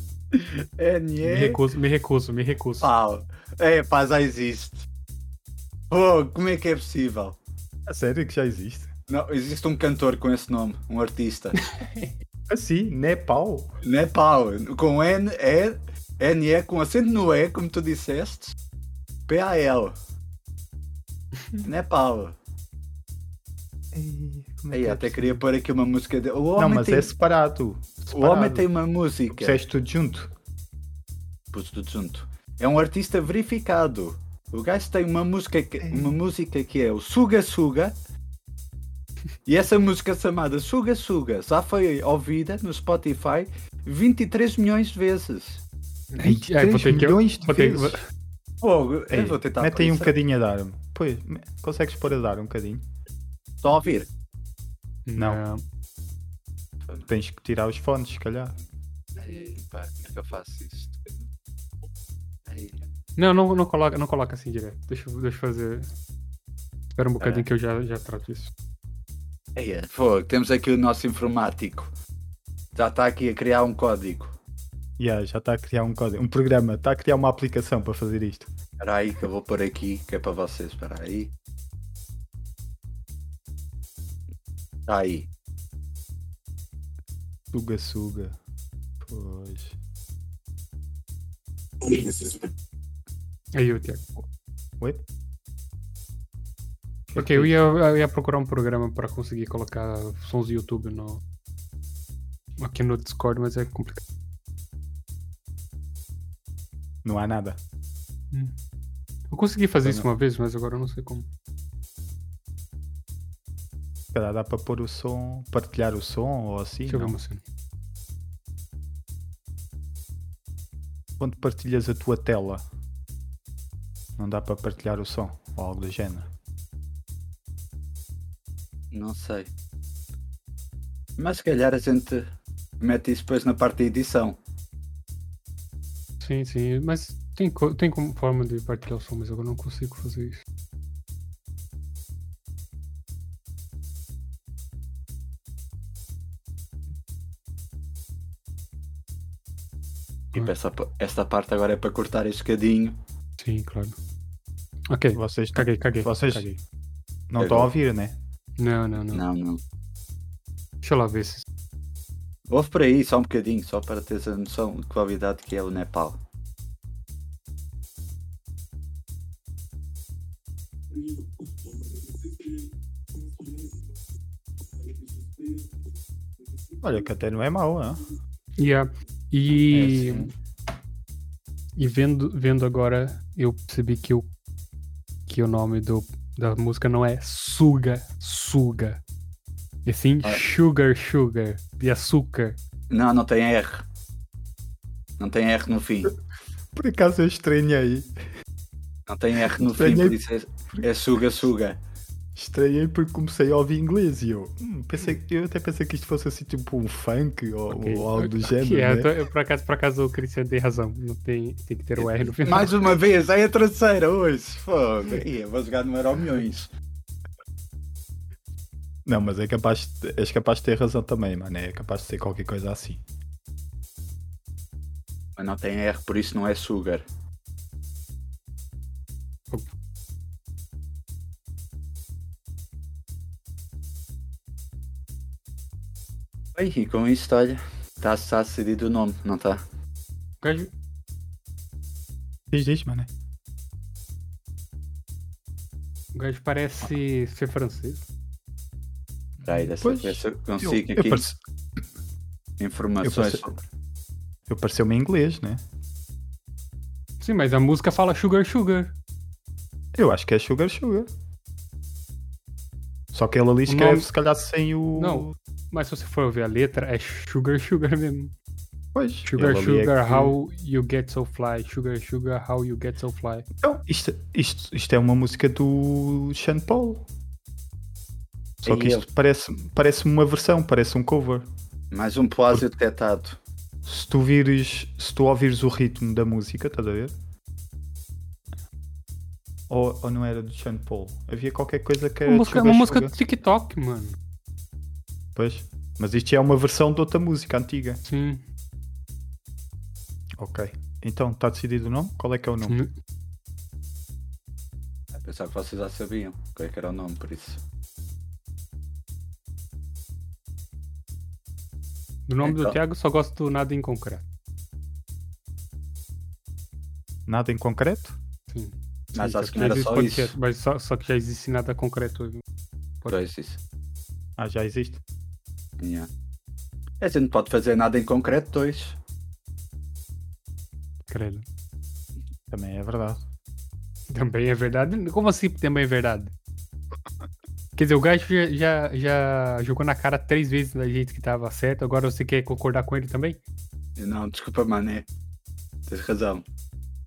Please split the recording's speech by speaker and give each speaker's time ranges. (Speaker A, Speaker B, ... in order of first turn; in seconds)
Speaker A: 0.3-1.6, 2.8-4.9, 5.9-7.4, 9.1-11.6, 13.8-18.5, 19.3-19.9, 21.6-22.4, 24.7-27.1, 28.1-29.6, 31.5-37.9, 39.5-45.6, 48.6-50.1, 53.6-54.1, 59.1-61.1, 62.5-62.8, 67.2-67.5, 69.5-71.9, 72.7-74.3, 78.8-81.3, 84.9-85.3, 128.9-129.5, 131.2-132.3, 132.8-134.4, 150.3-153.0, 157.4-157.7, 159.1-159.6, 162.5-166.2, 192.9-193.8, 195.2-196.1, 199.1-201.8, 212.0-216.7, 225.4-227.0, 236.5-239.6, 249.4-251.2, 252.6-253.6, 278.6-279.0, 281.9-283.4, 305.1-307.6, 312.4-312.8, 319.1-320.3, 323.1-323.6, 325.8-326.1, 327.0-329.0, 344.0-345.1, 345.9-346.4
Speaker B: 1.2-2.9, 11.6-12.1, 46.1-48.0, 55.0-55.6, 63.1-65.9, 67.0-68.5, 93.5-94.0, 97.1-101.2, 102.6-104.0, 109.3-111.3, 116.9-117.4, 136.2-140.4, 153.4-153.9, 154.9-156.6, 158.6-159.2, 160.8-161.4, 178.6-180.3, 181.8-184.3, 185.3-189.0, 189.8-192.6, 207.7-212.7, 240.4-240.7, 246.1-248.0, 257.2-258.9, 263.7-264.1, 265.0-268.3, 269.2-273.4, 292.2-294.1, 298.1-298.4, 312.3-314.2, 318.5-322.4, 331.1-331.4, 334.1-336.3, 337.8-343.4
Speaker C: 7.9-8.9, 12.5-13.7, 23.9-25.4, 26.6-28.7, 29.3-30.3, 35.8-36.2, 46.2-48.0, 49.1-52.8, 55.1-55.4, 57.1-58.5, 75.0-78.5, 87.5-88.3, 89.0-89.8, 97.1-97.5, 107.0-107.6, 114.1-117.2, 121.2-122.6, 124.2-126.3, 155.1-156.4, 157.3-158.2, 176.8-178.0, 179.7-180.3, 196.7-198.1, 199.6-200.2, 202.3-209.1, 219.1-223.0, 242.5-243.1, 249.8-251.4, 253.0-253.4, 254.5-255.6, 259.9-261.1, 263.1-265.3, 268.9-270.3, 273.6-277.0, 278.6-281.4, 283.8-287.1, 289.7-293.1, 295.3-298.0, 300.4-302.8, 317.3-318.2, 324.4-325.0, 332.5-333.2